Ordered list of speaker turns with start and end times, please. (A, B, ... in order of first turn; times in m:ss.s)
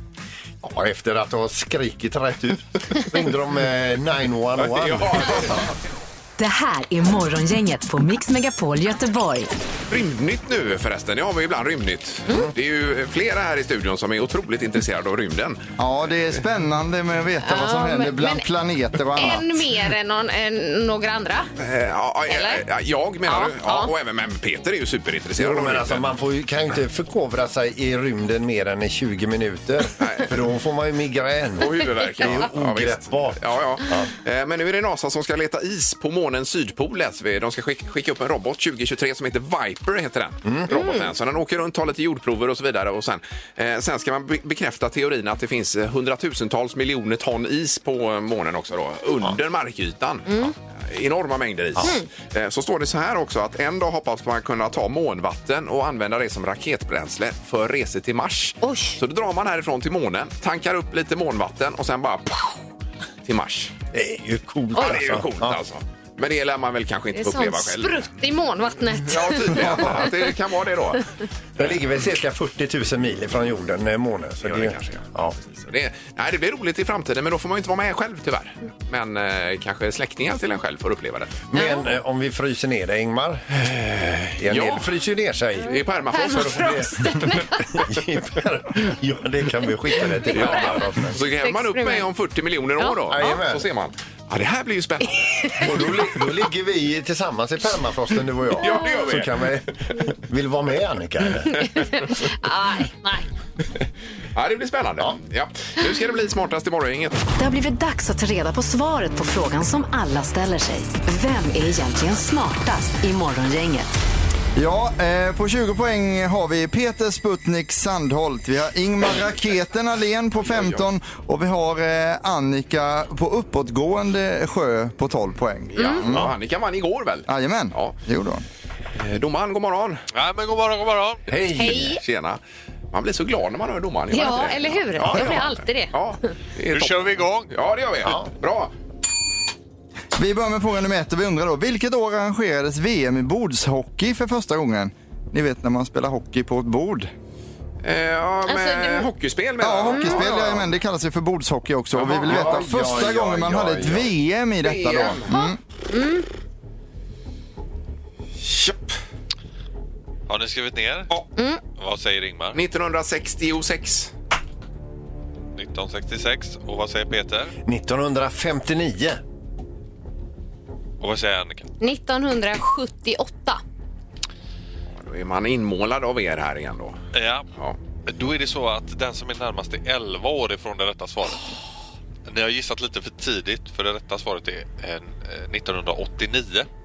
0:00.6-0:05.5 A
0:04.6-0:05.7 B
0:06.4-0:09.5 C
0:09.9-0:15.6 B
0:15.8-0:19.6 D
0:17.4-0:18.4 E
0:19.1-0:21.5 E
0:21.6-0:26.1 B
0:22.3-0:22.6 E
0:23.3-0:23.9 E
0:25.4-0:34.1 A
0:30.0-0:30.3 B
0:31.6-1:02.6 B
0:40.4-0:40.7 A
0:40.7-0:41.0 E
0:50.3-0:50.5 E
0:58.6-0:59.0 E
1:03.2-1:03.7 B
1:03.9-1:05.6 A
1:04.7-1:05.0 E
1:04.7-1:08.1 B
1:07.1-1:10.2 E
1:09.0-1:11.1 B
1:11.6-1:15.4 A
1:14.4-1:21.4 B
1:21.5-1:23.6 A
1:21.5-1:21.9 E
1:23.6-1:24.9 B
1:24.4-1:25.8 A
1:25.7-1:27.2 B
1:26.1-1:27.9 E
1:26.4-1:26.7 A
1:27.8-1:31.2 A
1:30.2-1:30.8 E
1:30.3-1:35.8 B
1:31.4-1:32.1 E
1:33.1-1:33.6 A
1:35.4-1:35.7 E
1:35.6-1:41.6 A
1:38.6-1:39.4 B
1:41.5-1:43.2 E
1:44.3-1:47.2 B
1:47.4-1:53.9 C
1:54.6-2:06.3 D
2:00.4-2:00.8 B
2:05.7-2:08.0 B
2:05.8-2:06.0 E
2:07.3-2:08.4 D
2:09.0-2:10.0 B
2:10.1-2:11.2 F
2:11.3-2:11.9 A
2:11.5-2:12.0 E
2:11.7-2:12.4 B
2:12.9-2:18.7 B
2:14.1-2:15.9 E
2:15.1-2:15.4 A
2:16.6-2:17.5 F
2:20.2-2:27.1 D
2:27.8-2:30.7 B
2:28.5-2:29.1 E
2:29.6-2:35.6 D
2:29.9-2:30.2 E
2:31.9-2:32.6 B
2:32.2-2:34.1 A
2:34.6-2:35.3 B
2:35.2-2:36.2 E
2:38.4-2:38.9 B
2:40.3-2:41.1 F
2:41.4-2:41.6 E
2:41.7-2:42.6 F
2:42.5-2:44.1 B
2:45.5-2:47.5 F
2:47.6-2:49.2 A
2:51.0-2:51.7 F
2:51.8-2:53.6 E
2:55.0-2:57.0 B
2:57.1-2:57.5 F
2:58.0-3:01.5 F
3:02.3-3:06.7 F